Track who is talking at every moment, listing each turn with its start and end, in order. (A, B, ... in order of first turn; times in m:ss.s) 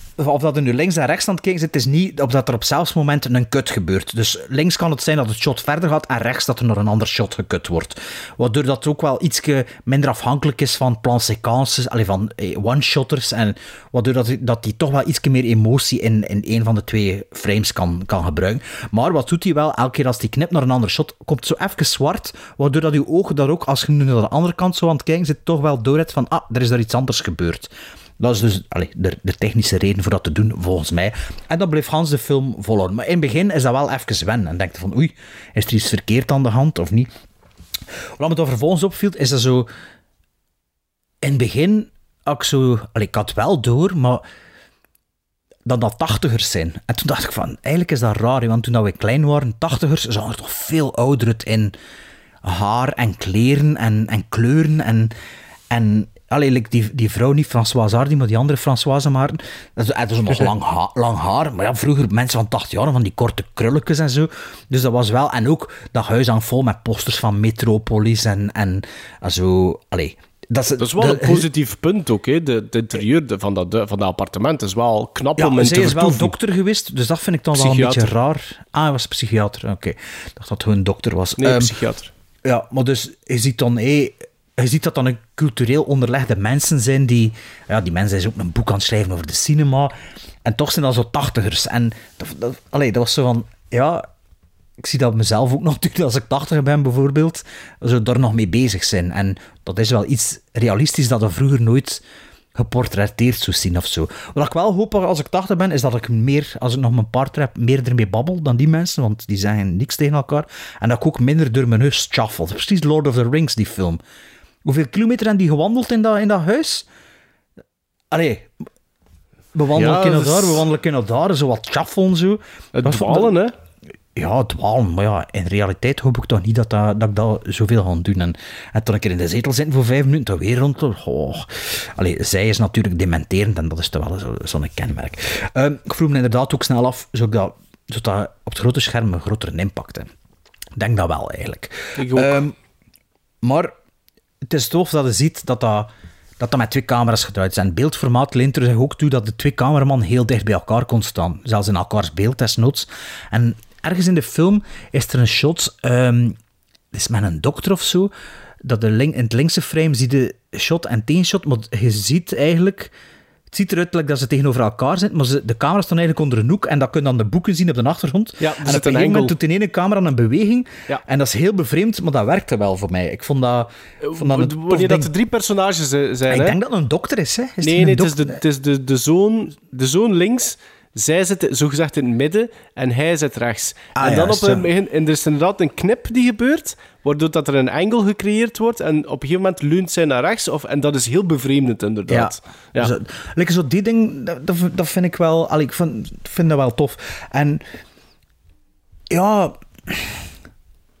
0:00.2-0:37.1 A
0:38.2-0:39.7 A
0:41.2-0:44.2 A
0:45.6-0:51.7 A
0:52.4-0:55.1 A
0:55.7-1:11.4 A
1:10.8-1:16.3 B
1:15.4-1:21.7 A
1:17.5-1:18.1 B
1:21.4-1:22.1 B
1:22.4-1:29.9 A
1:30.4-1:34.0 A
1:34.8-1:42.0 A
1:42.6-1:54.0 A
1:54.6-1:56.8 A
1:58.1-1:58.5 A
1:59.5-2:03.3 A
1:59.7-2:00.6 B
2:02.7-2:03.5 B
2:04.1-2:20.1 A
2:20.8-2:22.5 A
2:22.0-2:22.4 B
2:23.4-2:23.7 A
2:24.4-2:36.4 A
2:36.9-2:38.1 A
2:38.6-2:42.9 A
2:43.5-2:55.1 A
2:48.4-2:49.3 B
2:54.0-2:56.6 B
2:56.3-2:58.4 A
2:57.6-3:12.9 B
3:04.0-3:04.6 A
3:12.1-3:17.6 A
3:19.1-3:20.2 A